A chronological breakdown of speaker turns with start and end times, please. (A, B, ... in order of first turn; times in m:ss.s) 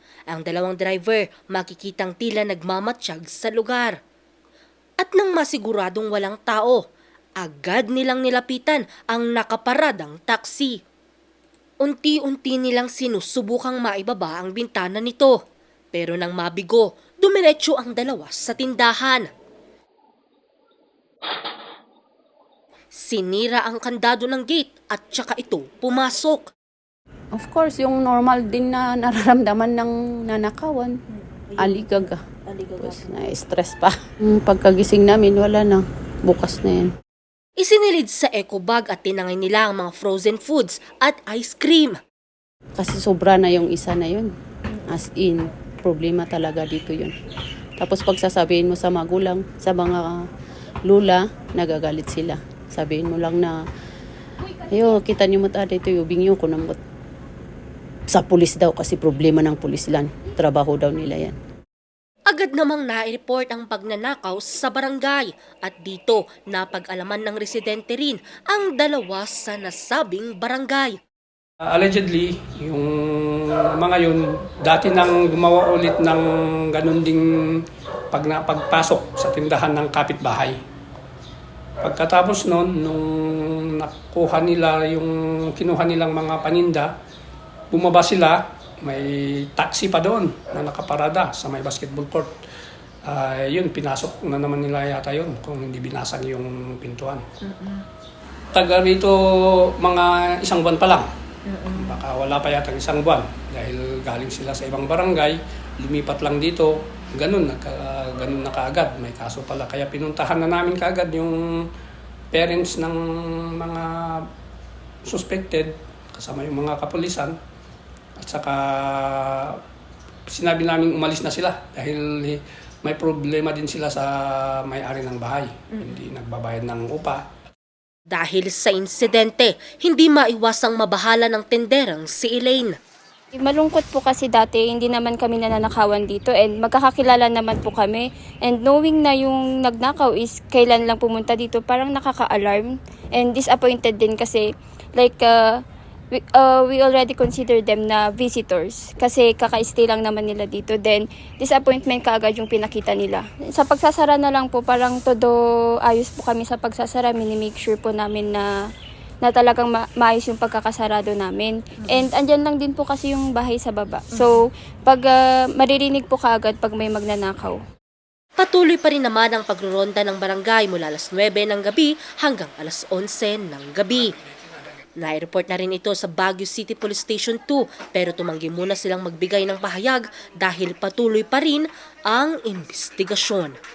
0:00.3-0:04.0 A
0:05.0-0:06.8 A
0:07.4-0:10.8 A
0:11.8-0:15.4 A
0:15.9-0:19.3 A
0:22.9-0:26.5 A
0:27.3-0:30.9 B
0:31.6-0:32.2 B
0:32.8-0:36.9 B
0:37.6-0:42.0 A
0:42.8-0:44.3 B
0:44.9-0:47.1 B
0:47.8-0:50.2 B
0:50.9-0:53.6 B
0:54.7-0:56.8 B
0:58.1-1:01.3 B
1:02.3-1:11.0 A
1:11.6-1:20.6 C
1:21.8-1:26.9 C
1:27.7-1:32.3 C
1:33.0-1:37.2 C
1:37.5-1:37.8 D
1:38.5-1:41.1 C
1:41.5-1:42.0 D
1:41.7-1:51.4 C
1:52.3-1:54.3 C
1:55.0-1:57.4 C
1:58.2-1:59.6 C
2:00.3-2:07.2 C
2:08.1-2:12.8 A
2:13.3-2:24.4 D
2:25.0-2:25.4 D
2:26.1-2:38.5 D
2:39.2-2:47.6 D
2:48.4-2:54.1 A
2:55.0-3:03.6 A